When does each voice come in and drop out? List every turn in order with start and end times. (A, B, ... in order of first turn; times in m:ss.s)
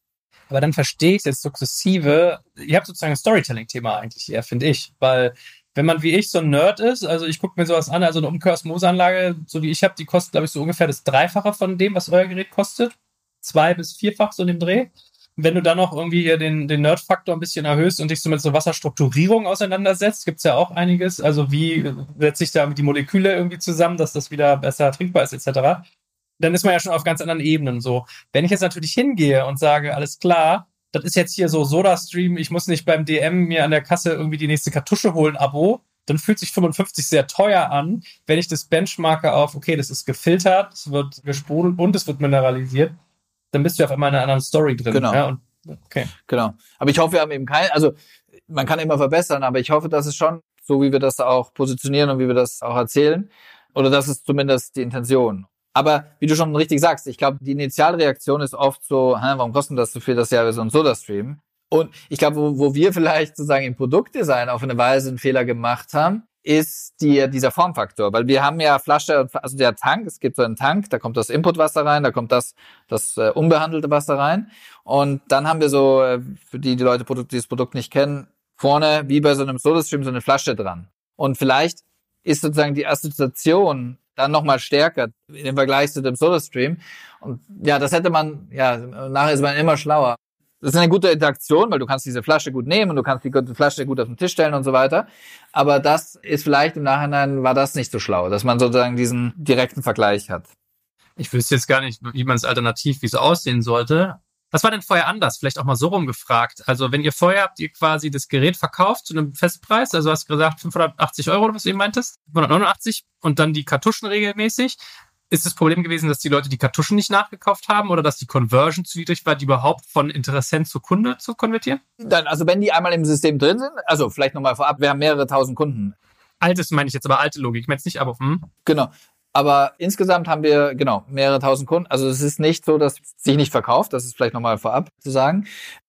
0:00.5-0:25.8 A
0:26.4-0:42.9 A
0:43.5-0:46.1 A
0:44.9-0:45.2 B
0:46.3-0:47.9 B
0:48.5-1:40.5 B
1:41.2-1:54.8 A
1:55.3-2:01.8 A
2:02.0-2:06.0 B
2:06.4-2:08.5 A
2:08.6-2:15.4 B